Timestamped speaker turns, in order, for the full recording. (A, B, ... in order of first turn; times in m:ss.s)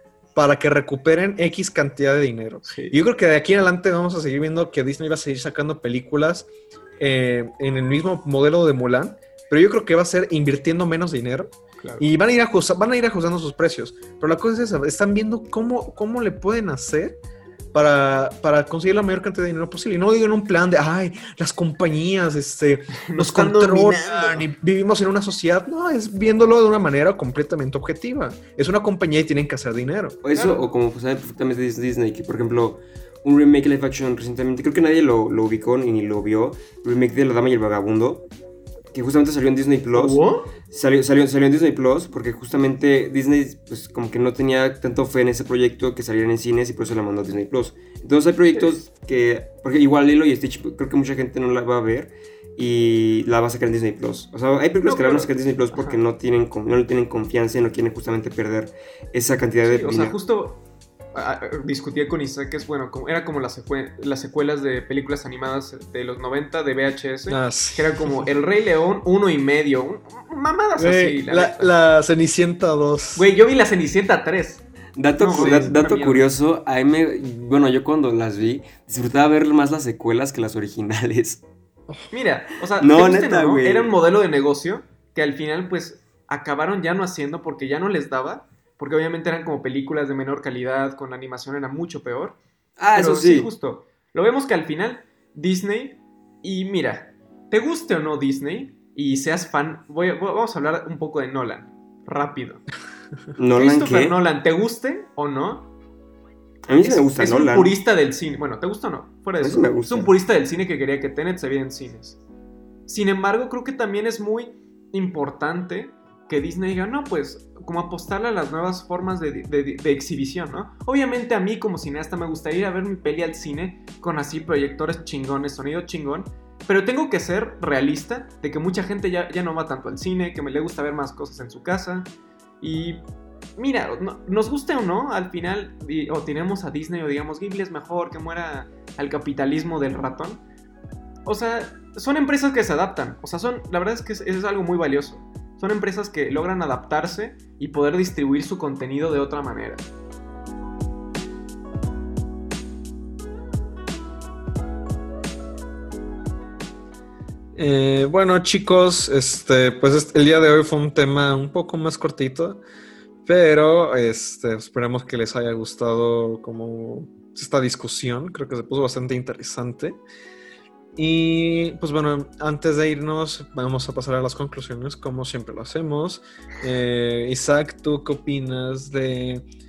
0:00.3-0:06.5 A
0:02.7-0:03.0 B
0:07.0-0:17.2 A
0:17.7-0:30.2 A
0:23.0-0:24.4 B
0:30.2-0:38.3 C
0:38.9-1:00.2 C
0:39.9-0:40.5 B
0:54.8-0:56.0 B
0:59.6-1:00.6 B
1:01.1-1:11.7 B
1:07.3-1:08.2 A
1:10.8-1:13.3 A
1:13.2-1:14.6 B
1:15.0-1:21.4 C
1:15.2-1:16.3 B
1:15.4-1:15.7 A
1:22.1-1:32.4 B
1:22.8-1:23.9 C
1:32.8-1:33.5 C
1:32.9-1:42.6 B
1:43.4-1:44.2 C
1:43.5-1:45.7 B
1:46.6-1:47.7 C
1:46.8-1:52.2 B
1:49.4-1:50.1 C
1:52.9-2:12.1 B
2:12.6-2:13.0 B
2:13.6-2:20.4 B
2:21.2-2:29.8 B
2:37.6-2:42.6 A
2:43.2-2:50.0 A
2:51.0-2:59.4 A